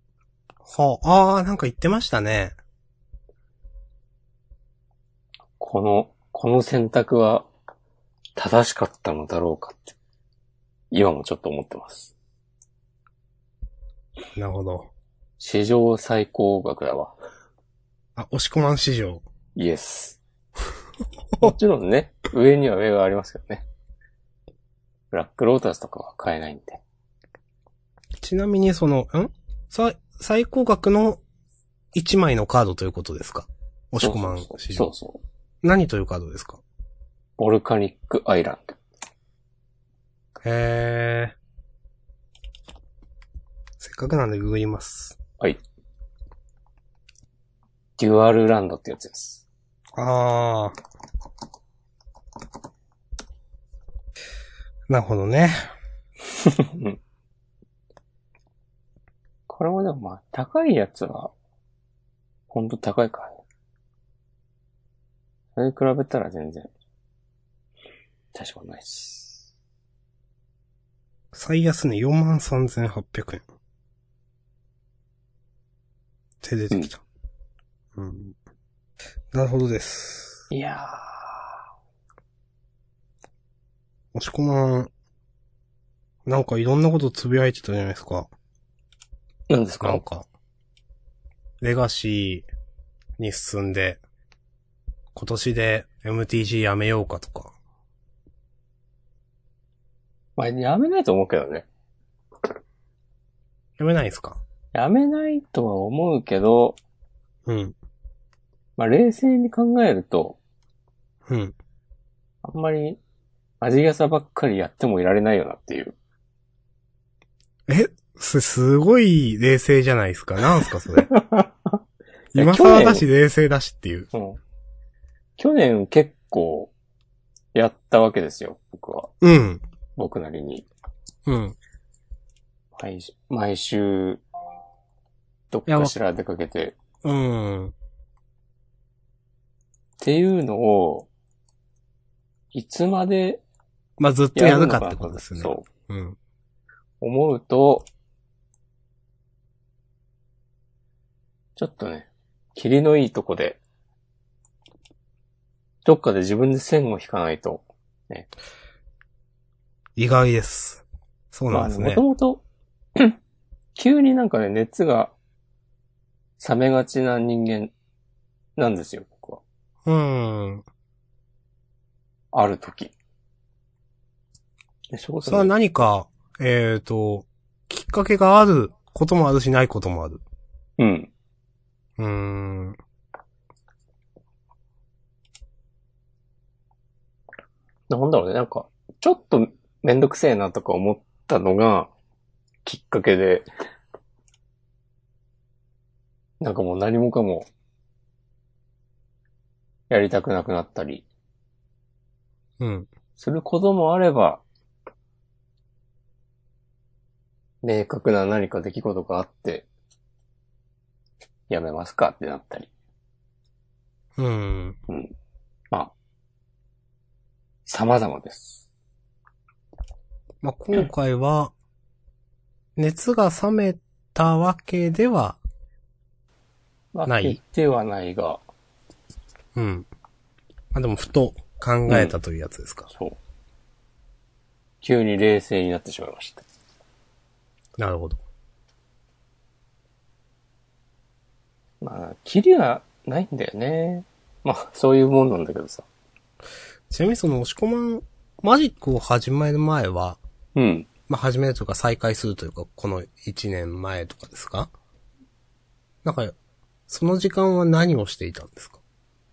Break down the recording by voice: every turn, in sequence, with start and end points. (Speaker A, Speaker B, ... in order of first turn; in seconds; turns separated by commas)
Speaker A: 0.7-2.6, Speaker B: 5.6-7.5, Speaker B: 8.4-9.9, Speaker B: 10.9-12.1, Speaker A: 14.4-14.9, Speaker B: 15.4-17.1, Speaker A: 18.1-19.2, Speaker B: 19.6-20.2, Speaker B: 21.4-23.6, Speaker B: 25.1-26.8, Speaker A: 28.2-31.2, Speaker A: 31.9-34.9, Speaker B: 34.0-35.2, Speaker A: 35.6-36.6, Speaker B: 37.4-38.8, Speaker A: 40.4-41.4, Speaker A: 43.8-45.2, Speaker B: 48.0-49.4, Speaker A: 50.0-50.8, Speaker A: 54.9-55.5, Speaker B: 56.3-57.0, Speaker B: 59.5-61.3, Speaker B: 62.5-63.4, Speaker B: 65.5-66.7, Speaker B: 68.3-69.4, Speaker A: 71.3-73.4, Speaker A: 76.4-77.0, Speaker A: 77.9-78.4, Speaker A: 79.3-80.4, Speaker B: 80.5-81.5, Speaker A: 84.1-84.9, Speaker A: 86.2-88.3, Speaker B: 89.5-90.0, Speaker A: 89.8-90.3, Speaker A: 91.6-92.5, Speaker A: 93.2-94.0, Speaker A: 95.1-97.5, Speaker B: 100.4-101.7, Speaker A: 103.8-104.4, Speaker B: 104.7-106.8, Speaker A: 107.5-107.8, Speaker B: 108.8-110.4, Speaker A: 111.3-111.5, Speaker B: 112.4-113.0, Speaker B: 113.6-115.9, Speaker A: 117.7-121.1, Speaker B: 120.9-121.8, Speaker B: 122.3-123.0, Speaker A: 122.3-124.1, Speaker B: 124.1-124.4, Speaker B: 125.4-126.7, Speaker B: 127.5-129.1, Speaker A: 129.2-129.6, Speaker B: 130.0-130.7, Speaker A: 131.2-131.6, Speaker B: 132.8-134.2, Speaker B: 135.5-136.8, Speaker A: 135.7-135.9, Speaker A: 137.0-137.7, Speaker B: 140.0-141.1, Speaker B: 142.5-143.4, Speaker A: 144.0-146.2, Speaker B: 144.3-145.7, Speaker B: 147.0-147.9, Speaker B: 151.6-153.6, Speaker B: 155.8-158.3, Speaker A: 160.0-162.0, Speaker B: 161.5-162.4, Speaker B: 163.8-165.1, Speaker B: 166.4-167.7, Speaker B: 168.6-169.4, Speaker A: 169.9-170.6, Speaker B: 172.3-172.9, Speaker B: 174.9-175.5, Speaker A: 175.2-180.2, Speaker B: 180.8-181.1, Speaker A: 182.0-182.8, Speaker B: 187.9-191.9, Speaker B: 192.6-193.5, Speaker B: 196.4-197.5, Speaker B: 199.9-201.1, Speaker A: 202.6-202.9, Speaker B: 203.2-204.4, Speaker B: 207.6-209.7, Speaker B: 211.5-212.7, Speaker A: 214.2-214.8, Speaker B: 214.9-215.1, Speaker B: 217.7-218.6, Speaker A: 220.4-221.5, Speaker A: 222.8-225.4, Speaker B: 226.9-228.4, Speaker A: 227.1-227.4, Speaker A: 229.5-229.9, Speaker A: 230.7-232.9, Speaker B: 231.9-232.1, Speaker B: 232.9-233.2, Speaker B: 234.8-236.4, Speaker A: 237.8-238.2, Speaker B: 241.8-245.9, Speaker A: 246.9-250.2, Speaker B: 250.6-250.9, Speaker A: 251.1-254.7, Speaker A: 256.0-256.4, Speaker A: 256.9-258.8